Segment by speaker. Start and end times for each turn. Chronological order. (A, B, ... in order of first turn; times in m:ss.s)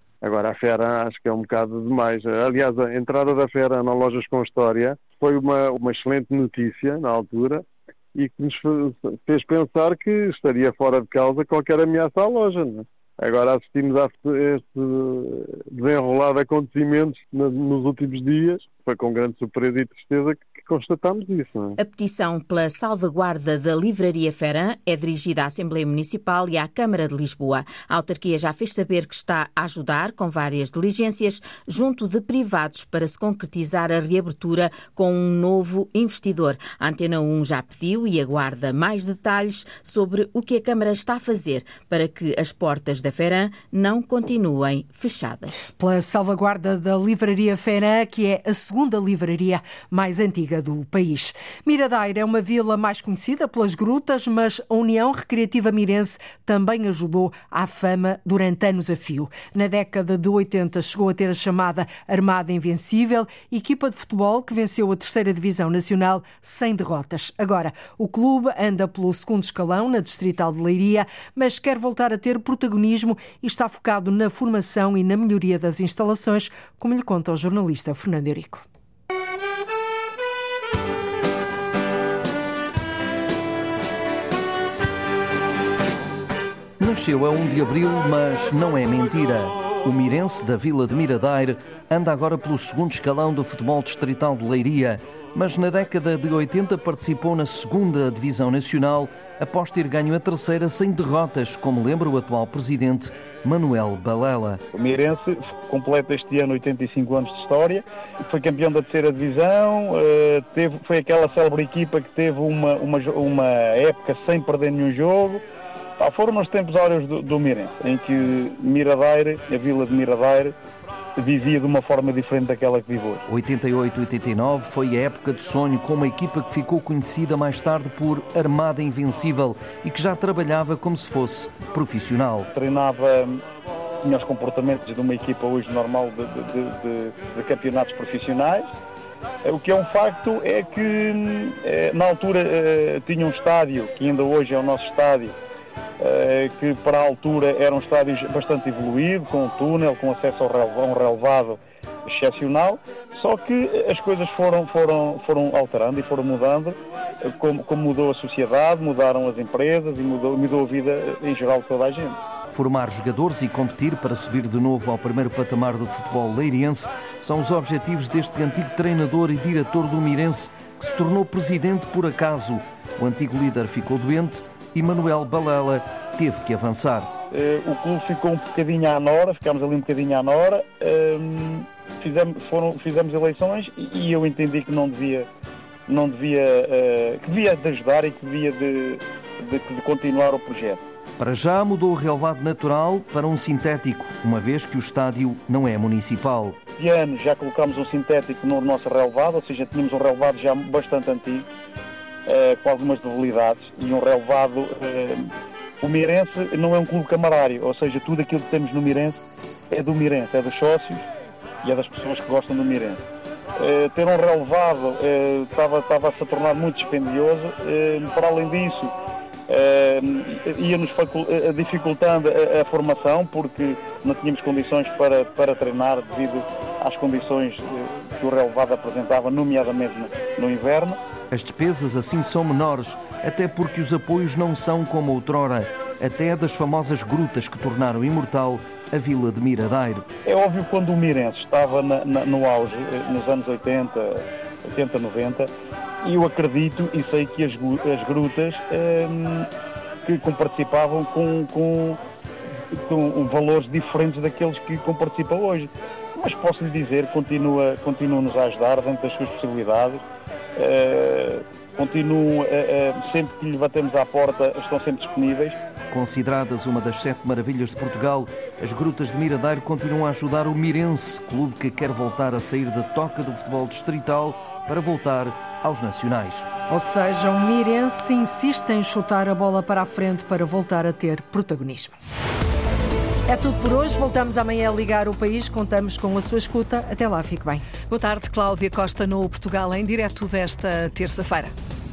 0:00.2-0:21.8 A
0:21.8-0:45.6 B
0:45.7-1:18.6 C
1:26.8-1:44.6 D
1:44.7-1:55.4 E
1:56.0-2:00.5 E
2:01.2-2:03.2 E
2:03.3-2:12.5 D
2:12.5-2:13.4 E
2:14.0-2:18.7 E
2:19.4-2:25.4 E
2:26.0-2:42.2 E
2:42.5-2:57.1 D
2:57.3-3:05.3 E
3:05.9-3:10.8 E
3:11.2-3:16.6 D
3:16.8-3:21.5 E
3:22.3-3:25.3 E
3:25.8-3:29.2 E
3:29.7-3:31.1 E
3:31.6-3:33.0 E
3:33.6-3:38.9 E
3:39.5-3:51.0 E
3:51.3-4:00.1 D
4:00.2-4:05.5 E
4:06.0-4:09.5 E
4:10.0-4:12.0 E
4:12.7-4:20.0 E
4:20.6-4:25.6 E
4:25.9-4:36.5 D
4:36.7-4:41.9 C
4:43.3-4:47.6 C
4:47.9-4:51.5 F